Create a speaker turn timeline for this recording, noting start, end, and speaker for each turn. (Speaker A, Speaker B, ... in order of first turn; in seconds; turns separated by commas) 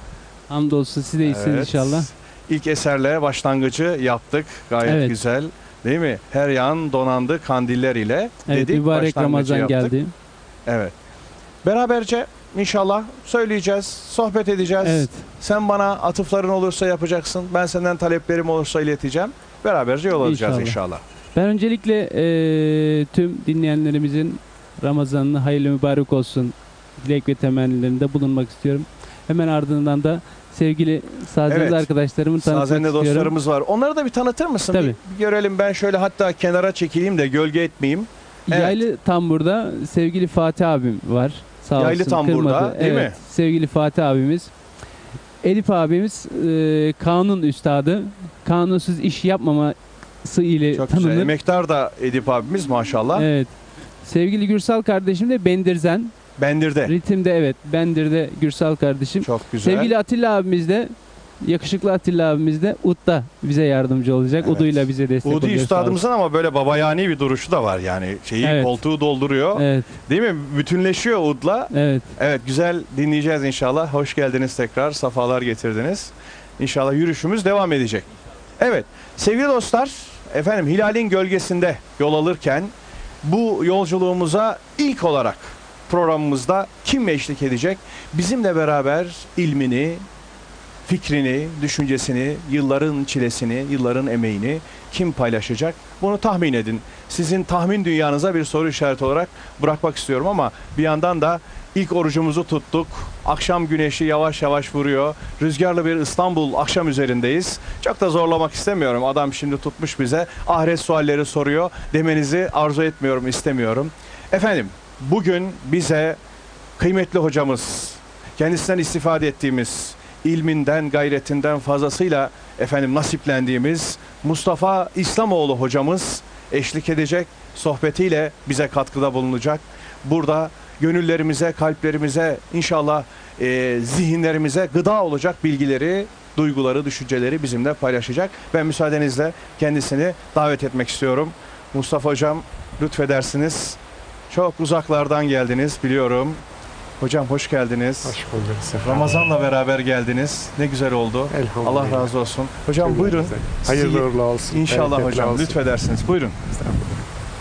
Speaker A: 0.5-2.1, Speaker B: 1.2-9.9, Speaker A: 4.8-5.2, Speaker A: 8.5-10.1, Speaker B: 10.7-10.9, Speaker B: 11.6-21.0, Speaker A: 14.8-15.2, Speaker A: 20.2-20.8, Speaker A: 21.4-33.3, Speaker B: 31.5-38.8, Speaker A: 34.7-35.0, Speaker A: 38.5-44.5, Speaker B: 41.8-43.2, Speaker A: 45.4-51.3, Speaker B: 50.7-53.3, Speaker A: 53.1-56.1, Speaker B: 56.4-56.9, Speaker A: 56.8-66.0, Speaker B: 59.2-59.9, Speaker B: 64.4-78.1, Speaker A: 68.4-68.8, Speaker A: 69.5-69.9, Speaker A: 71.7-72.1, Speaker B: 78.6-90.0, Speaker B: 90.9-116.2, Speaker B: 116.8-143.8, Speaker B: 144.3-146.4, Speaker B: 147.0-148.2, Speaker C: 148.1-149.3, Speaker B: 148.8-156.4, Speaker C: 151.3-152.1, Speaker C: 152.8-155.6, Speaker C: 156.5-157.0